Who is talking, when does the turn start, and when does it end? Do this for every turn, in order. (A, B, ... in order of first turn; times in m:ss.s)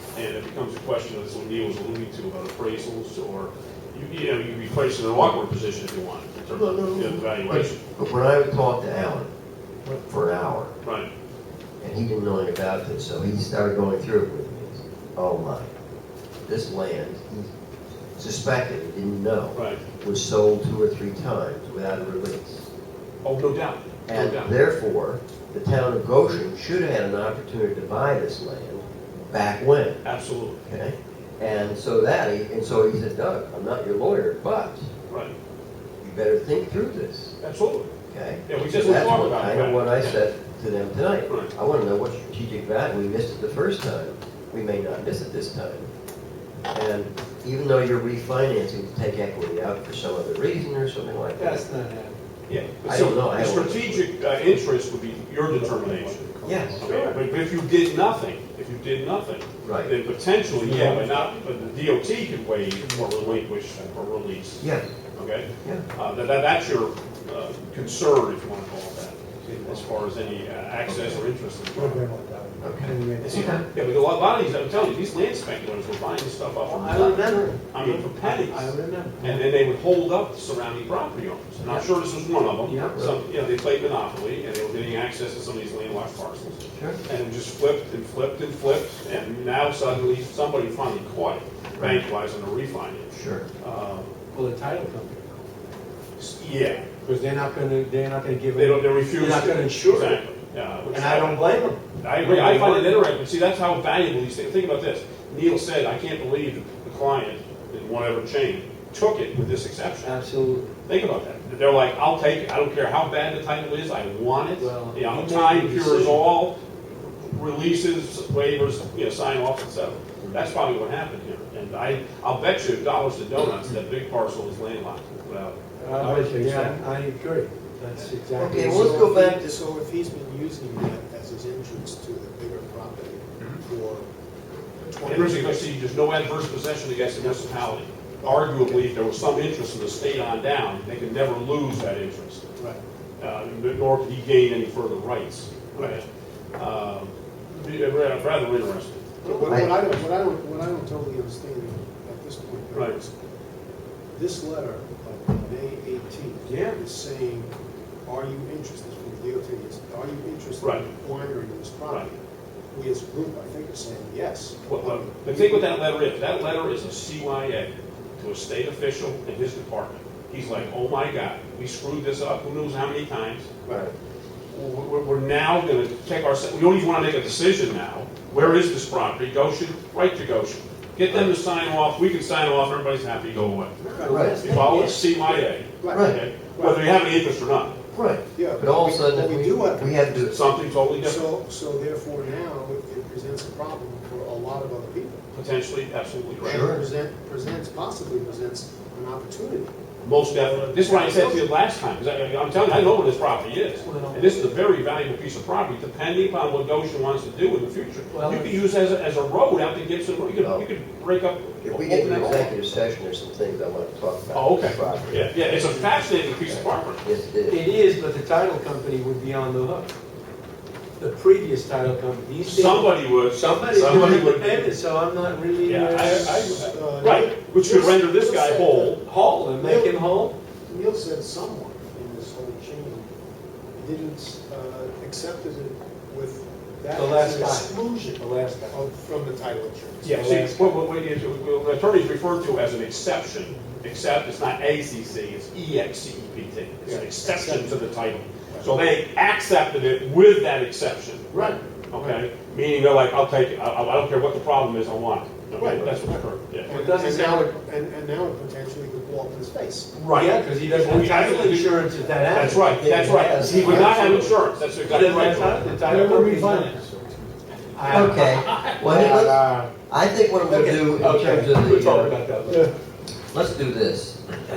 0:00.1-0:07.8 A
0:06.5-0:09.3 B
0:09.9-0:10.7 B
0:10.8-0:11.1 A
0:11.8-0:15.7 B
0:16.4-0:17.5 B
0:18.2-0:22.7 B
0:19.5-0:19.8 A
0:23.2-0:24.5 A
0:24.1-0:30.0 B
0:30.0-0:30.6 A
0:30.6-0:34.9 B
0:35.1-0:35.3 A
0:36.0-0:37.4 B
0:37.4-0:37.9 A
0:38.1-0:45.9 B
0:38.5-0:40.2 A
0:46.7-0:51.7 B
0:51.4-0:52.2 C
0:52.5-0:56.2 A
0:52.8-0:54.0 B
0:55.5-0:57.1 D
0:56.4-0:56.8 B
0:56.8-1:12.0 A
0:56.8-0:57.2 C
0:59.6-0:59.9 B
1:00.5-1:01.3 C
1:04.6-1:04.9 B
1:09.4-1:10.0 C
1:10.8-1:11.2 B
1:11.8-1:12.6 D
1:12.6-1:13.6 B
1:12.7-1:13.6 C
1:13.2-1:34.1 A
1:16.7-1:19.4 C
1:22.6-1:23.0 C
1:22.9-1:23.2 B
1:26.7-1:27.0 B
1:31.8-1:32.0 B
1:33.1-1:33.4 B
1:34.3-1:35.4 C
1:36.2-1:36.8 A
1:37.0-1:40.2 C
1:38.6-1:50.1 A
1:40.8-1:43.0 C
1:50.0-1:50.7 C
1:50.9-2:06.8 A
1:54.6-1:56.2 C
2:05.8-2:09.2 C
2:08.4-2:09.4 B
2:08.4-2:14.1 D
2:14.8-2:15.7 D
2:15.0-2:22.4 A
2:17.1-2:18.9 D
2:23.2-2:26.0 A
2:26.6-2:29.1 A
2:29.2-2:33.1 D
2:29.2-2:29.6 C
2:29.5-2:29.8 B
2:34.1-2:37.5 D
2:36.4-2:36.8 C
2:38.0-2:42.2 D
2:40.6-2:40.9 A
2:42.7-2:45.7 D
2:44.6-2:53.5 A
2:53.7-2:53.9 B
2:54.5-3:03.8 A
3:01.1-3:01.3 B
3:03.8-3:06.8 D
3:04.0-3:05.1 C
3:04.0-3:04.5 B
3:04.4-3:07.8 A
3:05.9-3:06.2 B
3:07.9-3:10.3 B
3:08.3-3:10.4 D
3:10.3-3:11.2 A
3:11.0-3:15.2 D
3:15.3-3:16.7 A
3:16.4-3:16.9 B
3:16.4-3:21.5 D
3:20.0-3:32.5 A
3:23.8-3:24.6 C
3:28.1-3:28.6 C
3:30.4-3:30.6 B
3:31.6-3:35.9 B
3:34.3-3:37.0 A
3:36.4-3:37.7 B
3:37.5-3:39.9 C
3:41.0-3:46.4 C
3:42.4-3:44.8 A
3:45.6-3:49.0 A
3:45.9-3:49.0 D
3:49.0-3:50.3 C
3:49.6-3:53.1 D
3:53.7-4:00.3 D
3:56.9-3:58.8 C
4:00.0-4:16.7 A
4:00.1-4:00.8 C
4:06.8-4:07.8 D
4:08.5-4:08.7 D
4:11.3-4:12.3 D
4:15.6-4:19.9 D
4:16.7-4:17.5 C
4:19.9-4:25.8 A
4:20.1-4:24.2 C
4:22.6-4:24.4 B
4:24.8-4:26.9 C
4:25.0-4:27.3 D
4:27.8-4:29.7 C
4:27.9-4:32.1 B
4:27.9-4:28.8 A
4:30.4-4:32.7 C
4:33.3-4:34.2 B